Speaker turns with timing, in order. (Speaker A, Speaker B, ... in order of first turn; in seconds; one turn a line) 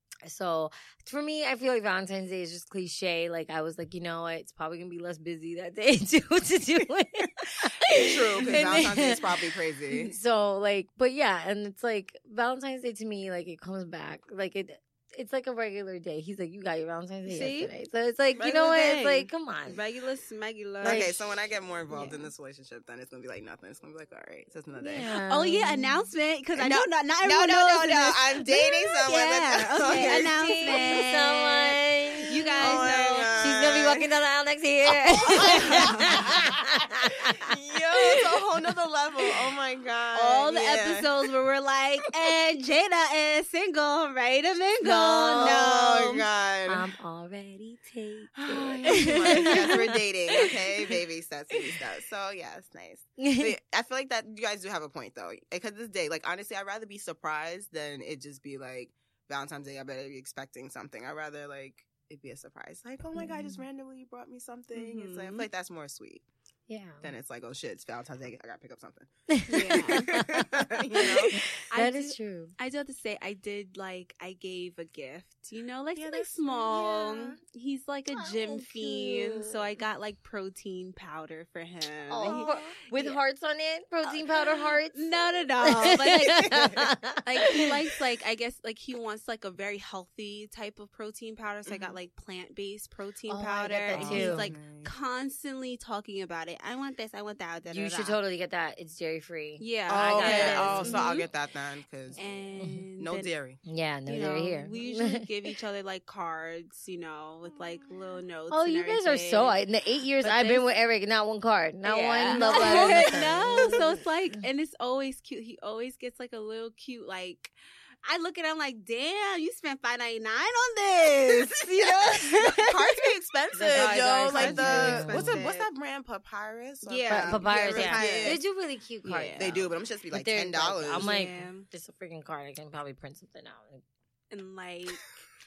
Speaker A: 0.2-9.2
Speaker B: 8.0-10.1
Speaker A: 9.9-19.8
Speaker C: 17.2-17.7
Speaker C: 18.4-21.1
Speaker B: 20.8-25.1
Speaker A: 20.8-21.2
Speaker C: 21.9-22.3
Speaker A: 24.8-26.1
Speaker C: 25.2-33.3
Speaker B: 26.5-31.0
Speaker A: 29.9-37.3
Speaker B: 32.5-34.1
Speaker B: 35.2-36.5
Speaker C: 35.3-35.9
Speaker B: 37.3-41.1
Speaker C: 40.1-46.2
Speaker A: 44.8-45.7
Speaker B: 45.4-46.9
Speaker A: 46.7-49.6
Speaker B: 48.5-66.2
Speaker C: 48.9-49.6
Speaker A: 53.2-53.5
Speaker A: 63.2-63.6
Speaker C: 64.7-65.5
Speaker A: 66.7-67.1
Speaker B: 67.0-69.1
Speaker A: 69.3-70.0
Speaker C: 69.5-70.1
Speaker B: 69.7-71.4
Speaker C: 71.7-83.2
Speaker A: 71.7-72.5
Speaker B: 76.0-77.4
Speaker A: 78.1-79.5
Speaker A: 82.1-87.5
Speaker B: 82.2-82.7
Speaker C: 84.0-98.2
Speaker B: 86.1-86.7
Speaker B: 91.7-92.0
Speaker A: 93.3-94.5
Speaker B: 93.9-94.9
Speaker A: 97.7-101.1
Speaker C: 99.6-101.3
Speaker B: 99.9-102.2
Speaker A: 102.2-102.8
Speaker C: 102.2-103.3
Speaker B: 103.0-103.6
Speaker A: 103.6-105.3
Speaker C: 104.0-109.6
Speaker A: 108.5-113.8
Speaker C: 110.2-110.7
Speaker C: 111.8-123.0
Speaker B: 112.3-113.8
Speaker B: 121.3-128.4
Speaker A: 123.5-125.4
Speaker C: 123.6-125.7
Speaker C: 126.8-128.4
Speaker A: 127.1-133.8
Speaker C: 129.0-129.6
Speaker B: 129.3-131.1
Speaker C: 130.9-131.7
Speaker C: 134.3-135.1